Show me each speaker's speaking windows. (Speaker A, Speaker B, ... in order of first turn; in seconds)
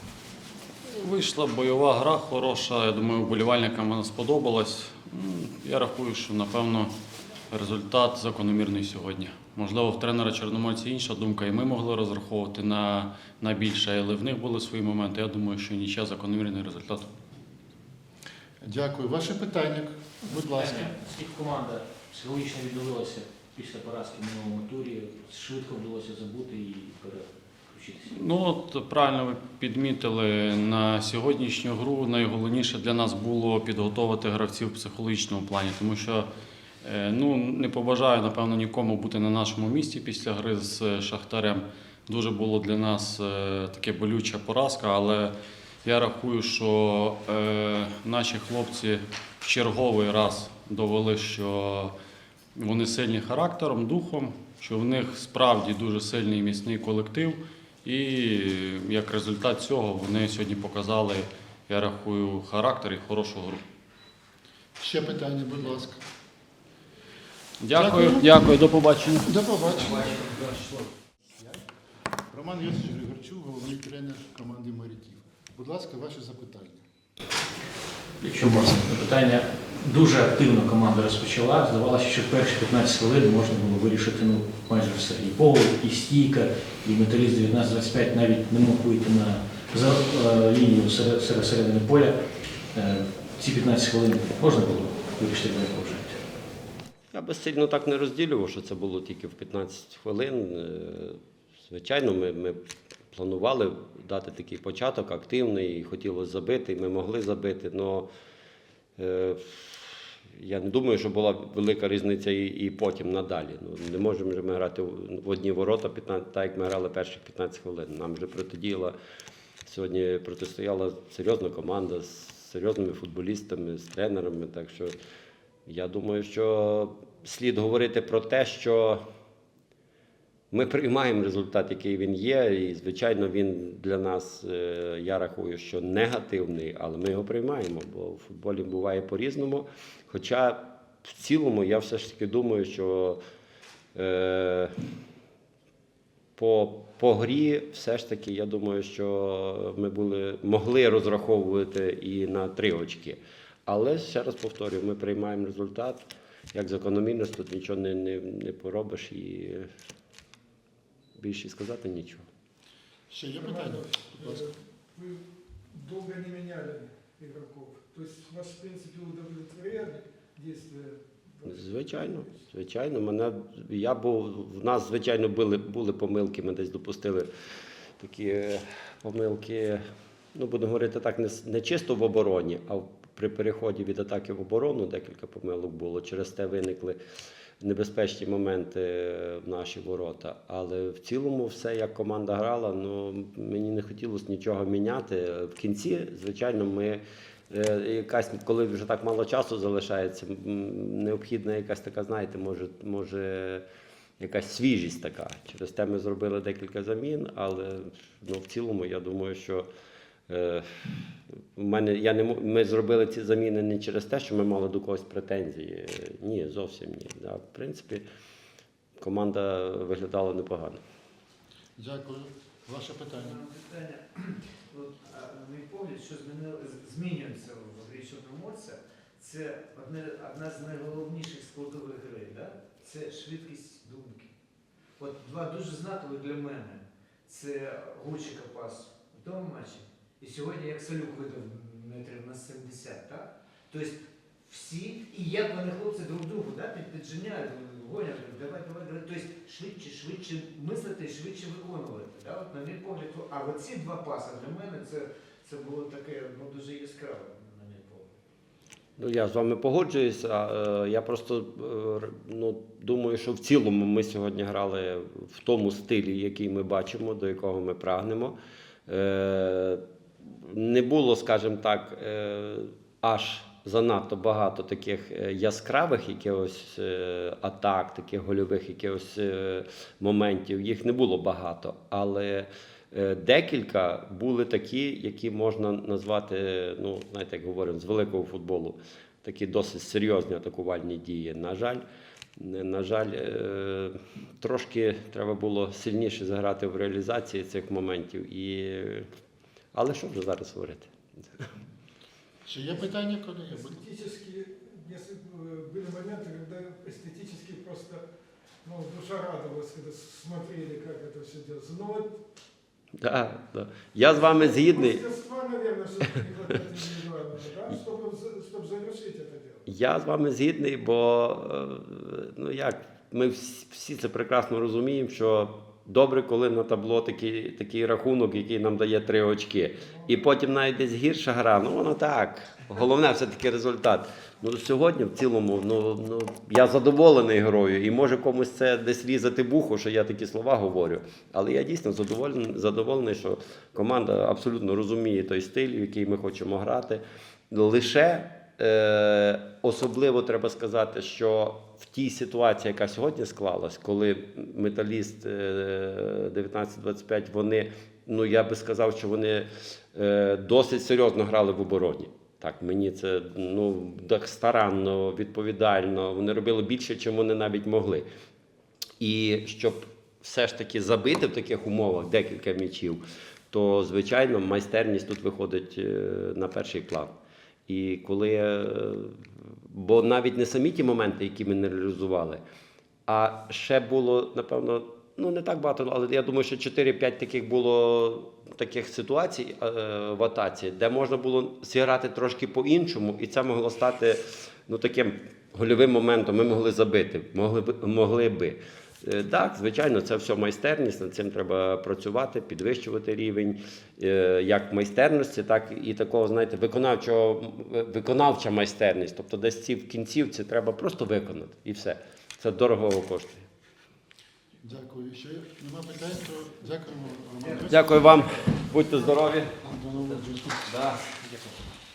Speaker A: 0.9-6.9, 7.5-17.1, 28.1-36.3, 36.8-45.3, 45.8-51.9, 52.5-63.6, 67.6-69.8
Speaker B: 18.6-20.9, 64.8-66.0, 67.7-68.4, 69.2-70.5, 71.4-71.6, 72.3-76.8, 163.1-164.4, 221.8-223.4, 302.4-303.9, 414.6-418.1, 419.6-420.8
Speaker C: 20.2-28.1, 78.2-92.2, 92.7-96.2, 421.2-421.6
Speaker D: 97.1-102.6, 103.1-108.1, 109.0-118.9, 119.7-124.9, 125.7-129.0, 130.5-143.2, 143.9-144.7, 146.4-159.7, 161.2-162.2, 171.5-177.3, 178.0-179.8, 180.3-187.0, 187.6-203.6, 204.2-209.7, 210.3-218.0, 219.0-220.8, 259.0-268.4, 268.9-291.8, 292.4-299.1, 299.7-300.9, 313.0-315.0, 319.7-368.1, 369.0-373.0, 373.5-377.1, 377.7-382.4, 383.1-413.5, 417.7-419.5, 420.7-421.0
Speaker E: 163.4-163.8, 165.8-170.9, 303.8-308.0, 308.6-312.1, 314.4-319.6
Speaker F: 223.1-234.3, 235.0-258.1